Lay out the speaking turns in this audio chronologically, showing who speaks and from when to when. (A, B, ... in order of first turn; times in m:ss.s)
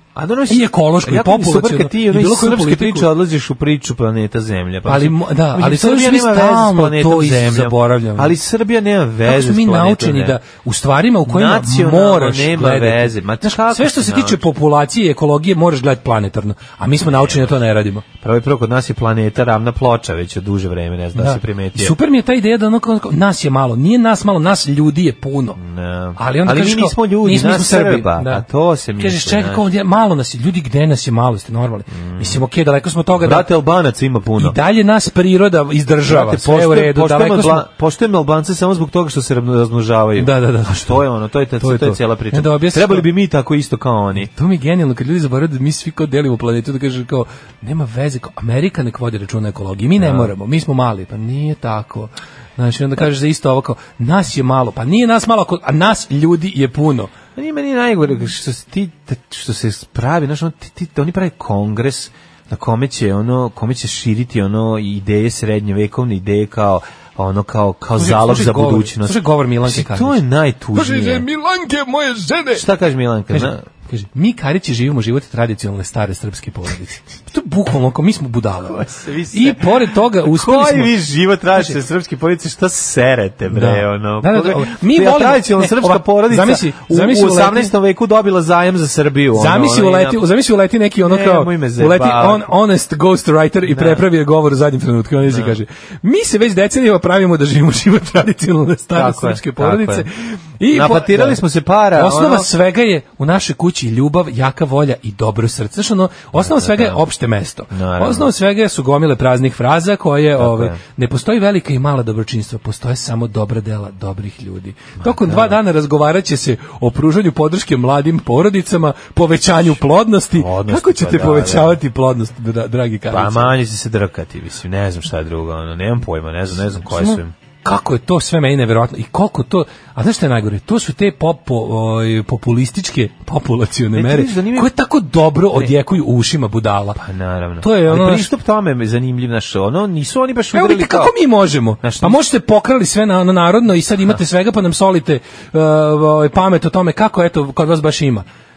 0:00.2-0:10.4 A
0:00.5-0:03.1 B
0:04.9-0:08.4 B
0:09.2-0:18.0 B
0:11.3-0:14.4 A
0:17.0-0:17.5 A
0:18.2-0:22.0 A
0:21.2-0:25.6 B
0:25.6-0:29.6 A
0:26.2-0:28.4 B
0:29.0-0:33.5 B
0:31.9-0:32.4 A
0:33.2-0:34.6 A
0:34.4-0:37.7 B
0:36.1-0:44.3 A
0:40.2-0:41.0 B
0:41.6-0:43.1 B
0:44.2-0:57.1 B
0:50.0-0:50.3 A
0:57.4-1:11.3 A
1:08.0-1:10.2 B
1:10.8-1:12.6 B
1:12.5-1:13.6 A
1:13.3-1:21.0 B
1:18.6-1:30.3 A
1:23.5-1:27.7 B
1:29.4-1:41.4 B
1:31.0-1:32.4 A
1:33.7-1:34.0 A
1:35.3-1:35.6 A
1:38.9-1:40.1 A
1:40.7-1:42.5 A
1:41.9-2:03.5 B
1:46.4-1:47.0 A
1:47.7-1:48.3 A
1:50.4-1:50.8 A
1:55.0-1:55.6 A
2:00.4-2:01.8 A
2:03.1-2:07.3 A
2:06.9-2:17.0 B
2:14.0-2:14.7 A
2:17.0-2:21.1 A
2:17.6-2:18.3 B
2:20.5-2:28.2 B
2:21.8-2:22.2 A